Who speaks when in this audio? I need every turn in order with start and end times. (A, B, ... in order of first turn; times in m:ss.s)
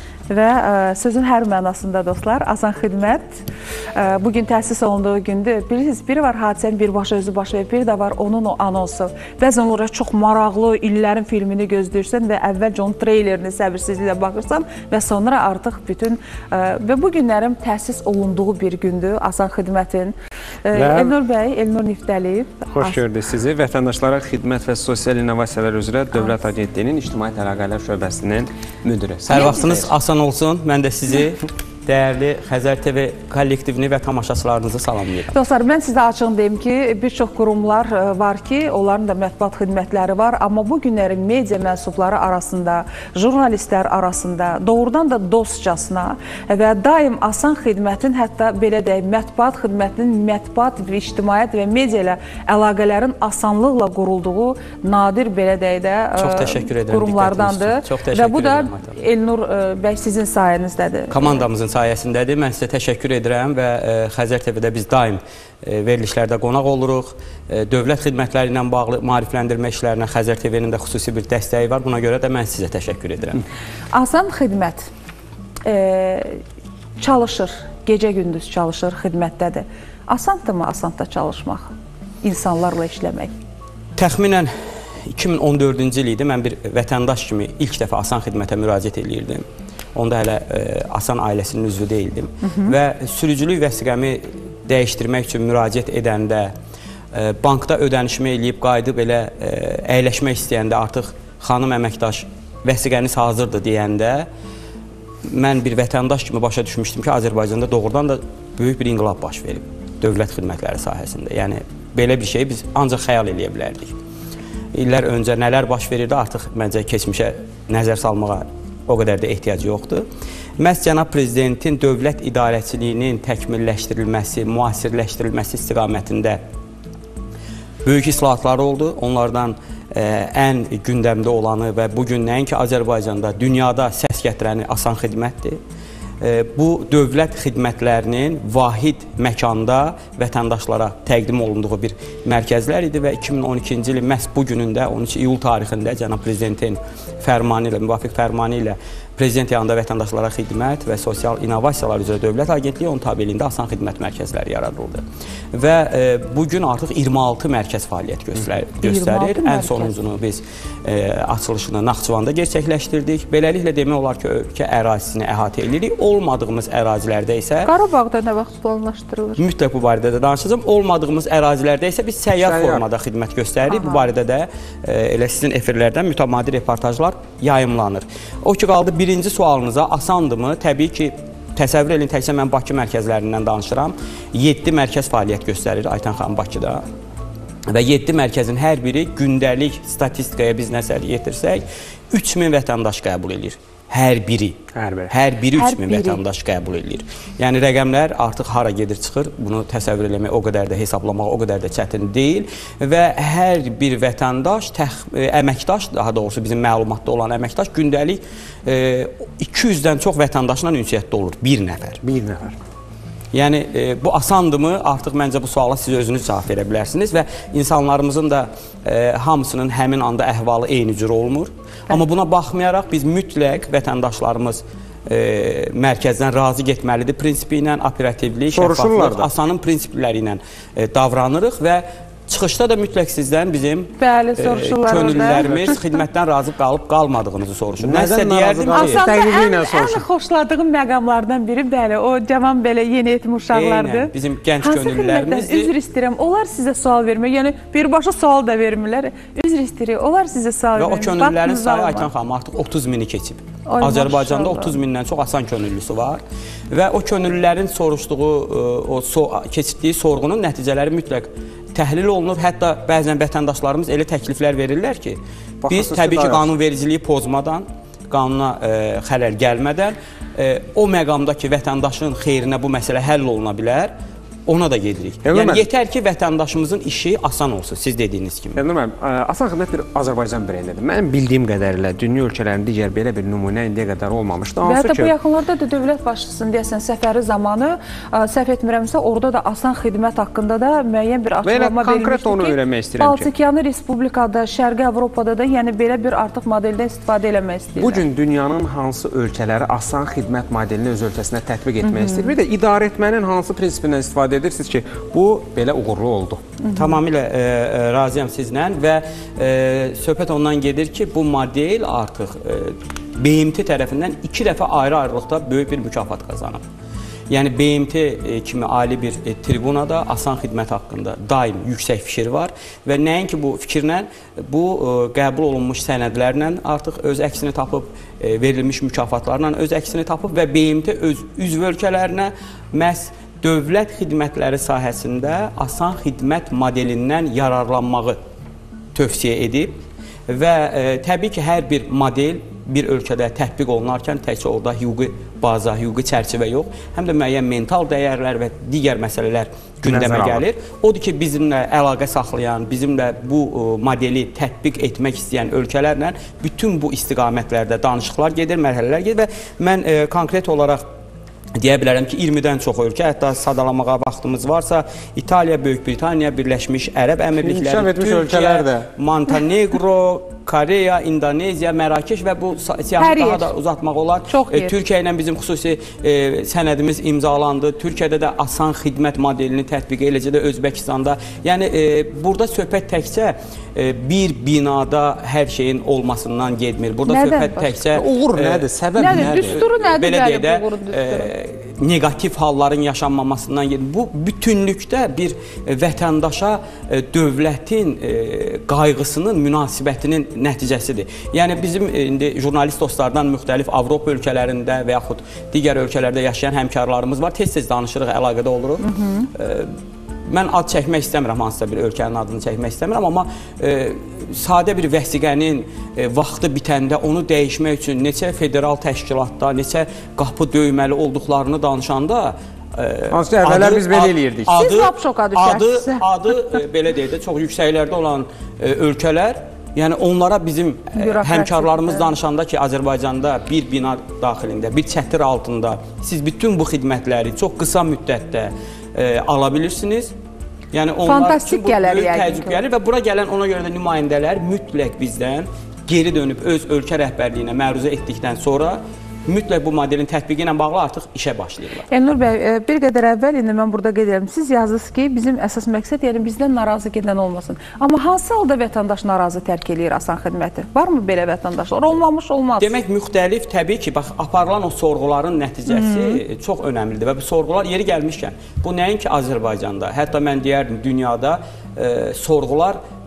0:00.3-0:03.4 A
0:03.9-0:23.0 A
0:20.7-0:21.1 B
0:22.7-0:29.9 B
0:29.3-0:35.3 C
0:35.3-1:01.4 A
0:56.2-0:59.0 C
1:01.1-1:13.4 C
1:13.9-1:14.9 A
1:15.6-1:16.4 A
1:17.0-1:21.7 A
1:22.2-1:23.3 A
1:24.0-1:24.5 C
1:25.1-1:29.4 C
1:29.9-1:36.5 C
1:32.4-1:32.7 A
1:37.1-1:44.3 C
1:45.3-1:53.9 C
1:54.7-2:00.0 C
2:00.6-2:06.4 C
2:07.8-2:15.6 C
2:16.2-2:47.7 C
2:38.8-2:39.9 A
2:47.6-2:49.4 A
2:49.4-3:06.8 C
2:52.4-2:52.8 B
2:53.7-2:54.1 A
3:07.7-3:32.0 C
3:14.7-3:15.1 B
3:15.5-3:16.2 A
3:32.0-3:32.6 B
3:33.3-3:59.0 C
3:48.5-3:49.3 B
3:54.0-3:55.5 A
3:54.9-3:55.8 B
3:57.8-4:00.0 B
3:58.7-4:12.1 A
4:03.5-4:05.7 C
4:10.8-4:33.9 C
4:13.7-4:14.7 A
4:25.6-4:26.5 B
4:34.5-4:38.6 C
4:35.2-4:35.7 B
4:38.5-4:45.1 B
4:44.6-4:58.0 A
4:51.4-4:53.3 B
4:57.8-5:06.4 B
5:01.8-5:02.3 A
5:06.7-5:16.6 C
5:17.3-5:38.2 C
5:38.9-5:39.7 C
5:40.3-6:00.8 C
5:49.8-5:50.4 B
6:01.6-6:49.7 C
6:07.4-6:08.9 B
6:13.0-6:13.5 A
6:14.3-6:14.8 A
6:27.0-6:27.8 A
6:27.9-6:29.6 B
6:29.0-6:31.3 A
6:48.8-6:49.3 A
6:50.3-7:20.1 C
7:03.1-7:04.5 B
7:04.5-7:06.0 A
7:10.9-7:12.0 A
7:20.7-7:31.9 C
7:21.0-7:22.6 A
7:31.9-7:42.8 A
7:42.6-7:52.8 C
7:45.7-7:46.2 A